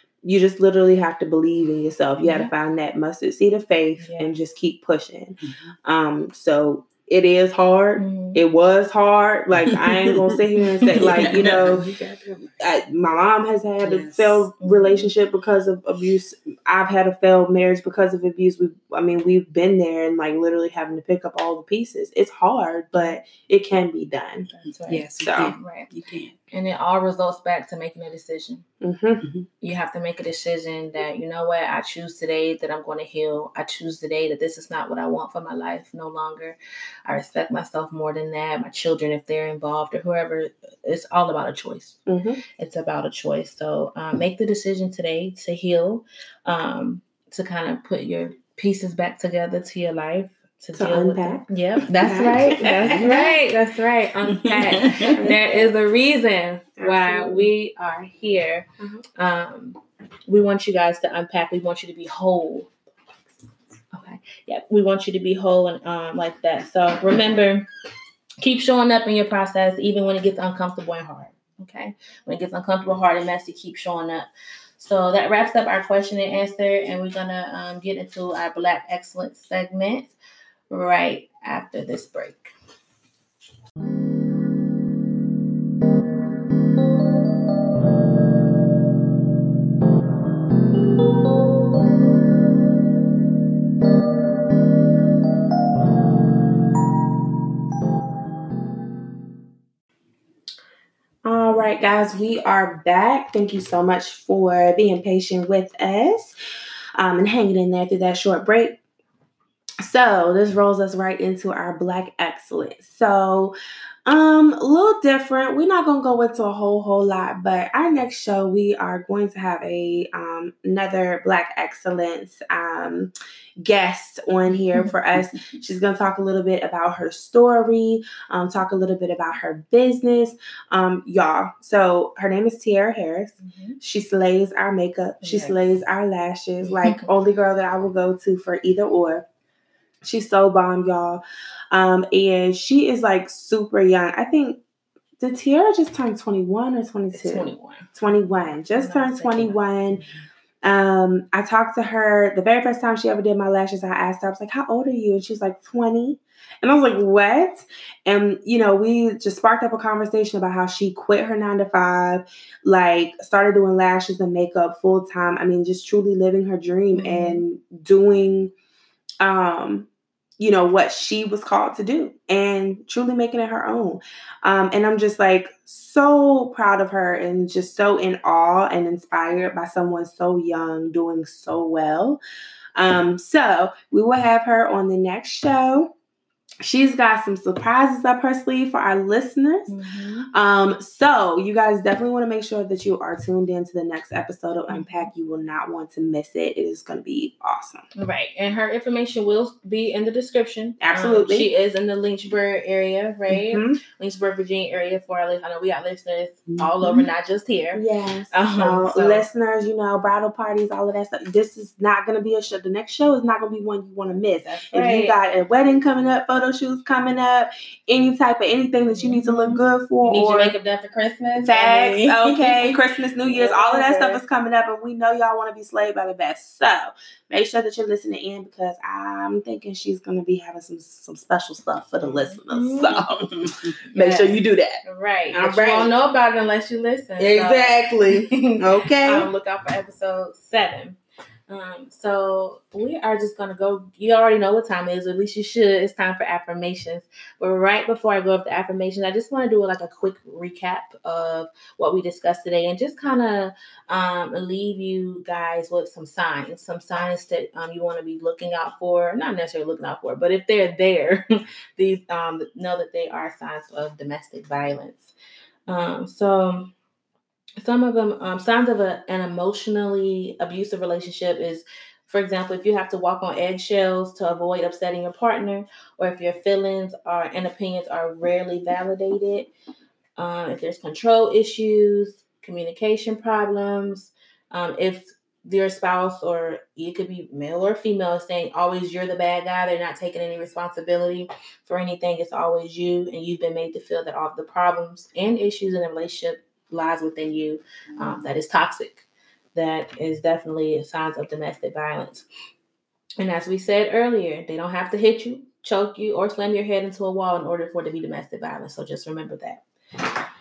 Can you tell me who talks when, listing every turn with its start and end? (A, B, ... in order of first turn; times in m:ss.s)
0:00.2-0:11.9 A
0:02.2-0:02.5 B
0:04.0-0:04.3 B
0:05.4-0:05.7 C
0:08.0-0:08.4 B
0:09.6-0:10.2 C
0:10.8-0:12.6 C
0:11.1-0:11.4 B
0:12.6-0:24.5 A
0:13.8-0:14.4 C
0:14.6-0:15.1 B
0:24.5-0:25.9 B
0:24.6-0:26.4 C
0:25.2-0:25.5 A
0:26.5-0:28.6 B
0:28.8-0:29.3 A
0:29.6-0:42.0 B
0:42.1-0:42.4 A
0:42.6-1:02.7 B
0:50.7-0:51.5 A
0:51.8-0:53.0 C
0:52.0-0:53.4 A
0:54.3-0:55.1 C
0:54.9-0:55.7 A
0:56.8-0:57.5 A
1:03.9-1:07.7 B
1:08.4-1:20.1 B
1:20.7-1:22.5 B
1:41.2-1:46.3 A
1:47.0-1:48.8 A
1:49.8-1:53.5 A
1:54.0-2:19.2 A
2:13.4-2:13.8 B
2:15.2-2:15.6 B
2:16.6-2:17.1 B
2:20.0-2:24.6 A
2:25.2-2:30.0 A
2:27.1-2:27.9 B
2:28.7-2:29.6 B
2:30.6-2:48.5 A
2:46.9-2:47.4 B
2:49.2-2:49.9 A
2:50.4-3:02.2 A
3:02.7-3:05.9 A
3:06.6-3:09.7 A
3:09.7-3:10.3 B
3:10.3-3:17.9 A
3:14.7-3:15.1 B
3:17.9-3:29.2 B
3:20.8-3:21.5 A
3:23.3-3:23.8 A
3:26.5-3:26.7 C
3:27.7-3:40.5 A
3:34.5-3:35.2 B
3:39.0-3:44.2 B
3:41.4-3:55.9 A
3:52.0-3:53.0 B
3:53.2-3:53.7 C
3:53.8-4:25.1 B
3:57.2-3:59.3 A
3:58.6-3:59.0 C
4:25.7-4:26.7 B
4:27.6-4:39.5 B
4:40.2-5:02.2 B
5:03.2-5:09.6 B